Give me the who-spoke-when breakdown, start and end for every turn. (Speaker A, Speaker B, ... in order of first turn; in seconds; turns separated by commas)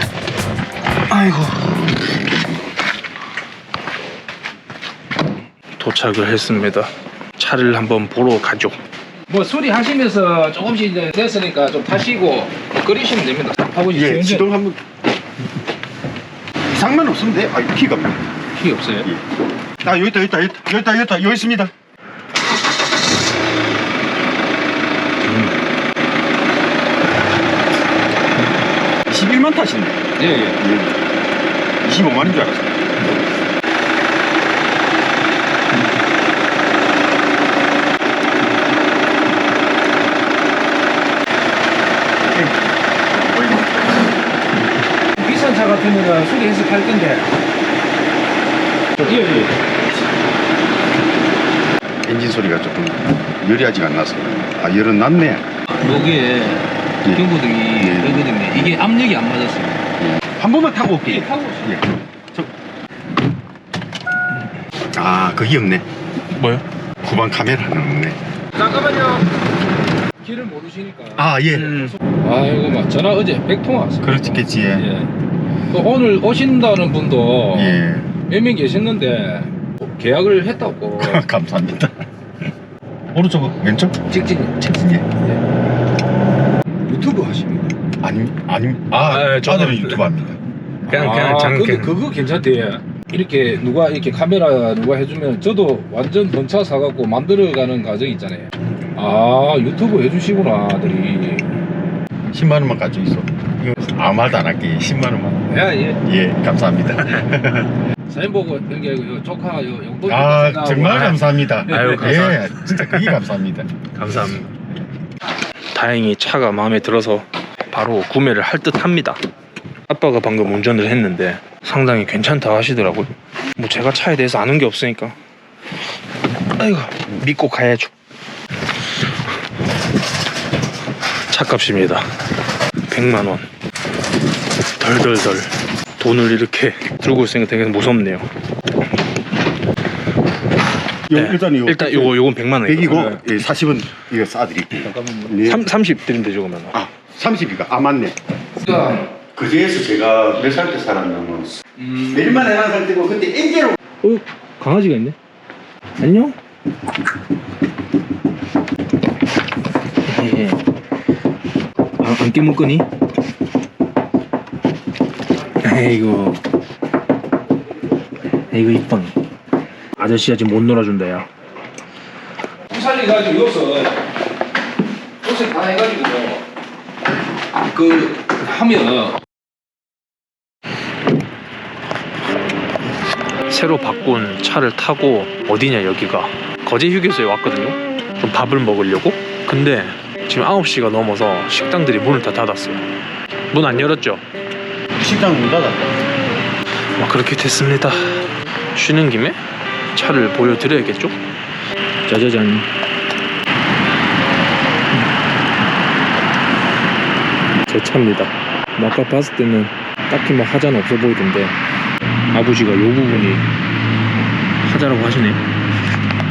Speaker A: 1.1-1.8, Speaker A: 5.8-8.8, Speaker B: 9.3-14.5, Speaker C: 13.9-14.8, Speaker C: 16.6-18.2, Speaker B: 18.6-19.1, Speaker C: 19.8-21.7, Speaker C: 29.1-30.0, Speaker B: 30.2-30.6, Speaker C: 30.6-31.0, Speaker C: 31.8-32.7, Speaker B: 45.2-47.3, Speaker C: 49.0-49.3, Speaker B: 49.0-49.5, Speaker C: 52.0-55.5, Speaker B: 55.8-56.4, Speaker A: 55.8-56.6, Speaker C: 57.0-58.8, Speaker B: 57.1-59.8, Speaker A: 57.5-57.9, Speaker C: 60.0-62.5, Speaker B: 61.0-61.7, Speaker C: 64.9-65.8, Speaker A: 66.3-66.6, Speaker C: 67.0-68.2, Speaker B: 68.5-69.3, Speaker B: 70.2-75.1, Speaker C: 71.2-71.8, Speaker A: 71.5-71.9, Speaker C: 74.0-74.9, Speaker B: 75.7-77.8, Speaker C: 77.5-78.1, Speaker B: 78.3-81.2, Speaker C: 81.0-81.9, Speaker C: 83.1-84.0, Speaker B: 84.1-85.4, Speaker B: 86.8-87.8, Speaker C: 88.0-90.4, Speaker A: 89.0-90.0, Speaker A: 90.9-92.0, Speaker B: 90.9-101.5, Speaker C: 102.3-105.5, Speaker B: 105.5-106.0, Speaker C: 106.0-107.7, Speaker B: 108.1-111.1, Speaker C: 110.0-113.7, Speaker A: 110.8-113.2, Speaker A: 113.9-114.5, Speaker A: 115.7-119.2, Speaker A: 119.9-125.2, Speaker A: 126.5-127.9, Speaker A: 131.3-132.1, Speaker A: 132.9-133.5, Speaker A: 134.8-138.2, Speaker C: 141.1-145.6, Speaker A: 141.1-143.2, Speaker B: 144.8-145.3, Speaker A: 145.3-146.8, Speaker C: 146.7-148.1, Speaker B: 148.6-149.1, Speaker C: 149.3-153.8, Speaker B: 151.8-152.3, Speaker A: 154.0-155.2, Speaker A: 156.0-156.4, Speaker A: 160.1-160.6, Speaker A: 162.0-162.9, Speaker A: 165.6-166.4, Speaker A: 168.5-169.1, Speaker A: 170.0-171.3, Speaker B: 172.7-174.0, Speaker B: 175.2-176.4, Speaker B: 177.7-179.2, Speaker A: 183.5-192.8, Speaker A: 193.5-194.2, Speaker C: 195.0-195.9, Speaker A: 197.0-199.4, Speaker A: 199.9-201.2, Speaker A: 202.1-202.7, Speaker A: 207.7-211.6, Speaker A: 212.3-213.5, Speaker A: 214.6-215.4